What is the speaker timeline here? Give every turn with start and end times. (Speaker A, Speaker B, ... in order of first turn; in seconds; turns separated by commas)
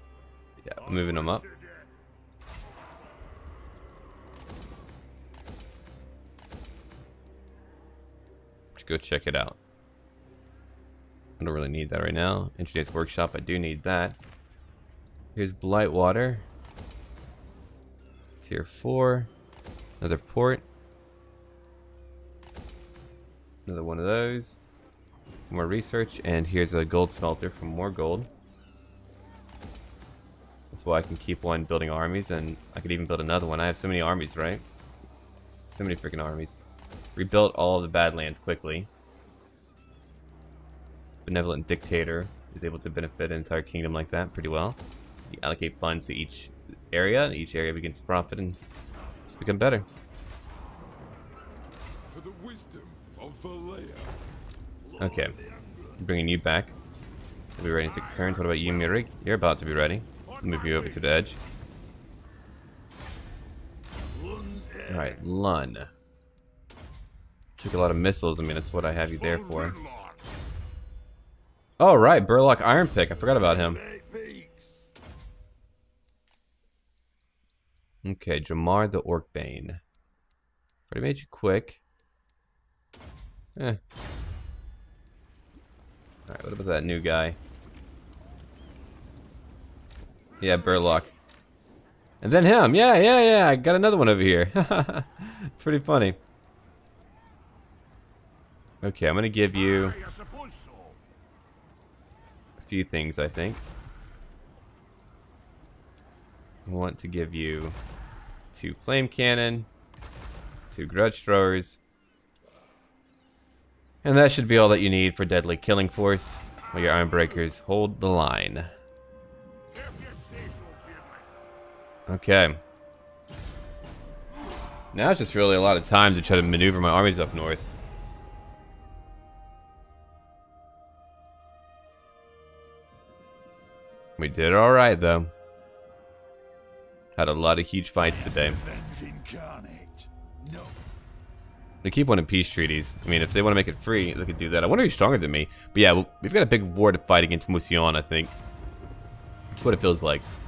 Speaker A: 0.6-1.5, Speaker B: 0.8-1.9, Speaker A: 8.8-9.6, Speaker A: 11.4-14.2, Speaker A: 15.4-16.5, Speaker A: 18.4-19.3, Speaker A: 20.0-20.6, Speaker A: 23.7-24.6, Speaker A: 25.5-28.3, Speaker A: 30.7-34.6, Speaker A: 35.6-36.6, Speaker A: 37.2-38.9, Speaker A: 41.2-48.6, Speaker A: 49.3-49.9, Speaker B: 52.0-54.2, Speaker B: 54.8-56.0, Speaker A: 55.0-55.4, Speaker A: 56.0-56.8, Speaker A: 57.6-61.4, Speaker B: 58.2-58.6, Speaker B: 60.3-61.1, Speaker B: 64.1-65.2, Speaker A: 64.9-65.9, Speaker A: 67.6-69.8, Speaker B: 69.0-70.2, Speaker A: 71.8-73.8, Speaker B: 73.4-74.8, Speaker A: 78.0-79.8, Speaker A: 80.9-81.8, Speaker A: 86.3-87.4, Speaker A: 90.4-91.1, Speaker A: 92.2-96.2, Speaker A: 98.8-100.0, Speaker B: 99.8-101.0, Speaker A: 102.6-103.6, Speaker A: 106.7-107.8, Speaker A: 108.5-109.7, Speaker A: 110.7-111.8, Speaker A: 114.0-118.7, Speaker B: 119.7-121.3, Speaker A: 122.1-122.6, Speaker A: 124.9-127.6, Speaker A: 134.2-135.3, Speaker A: 137.2-138.6, Speaker B: 138.1-140.8, Speaker A: 141.8-148.3, Speaker A: 149.6-150.3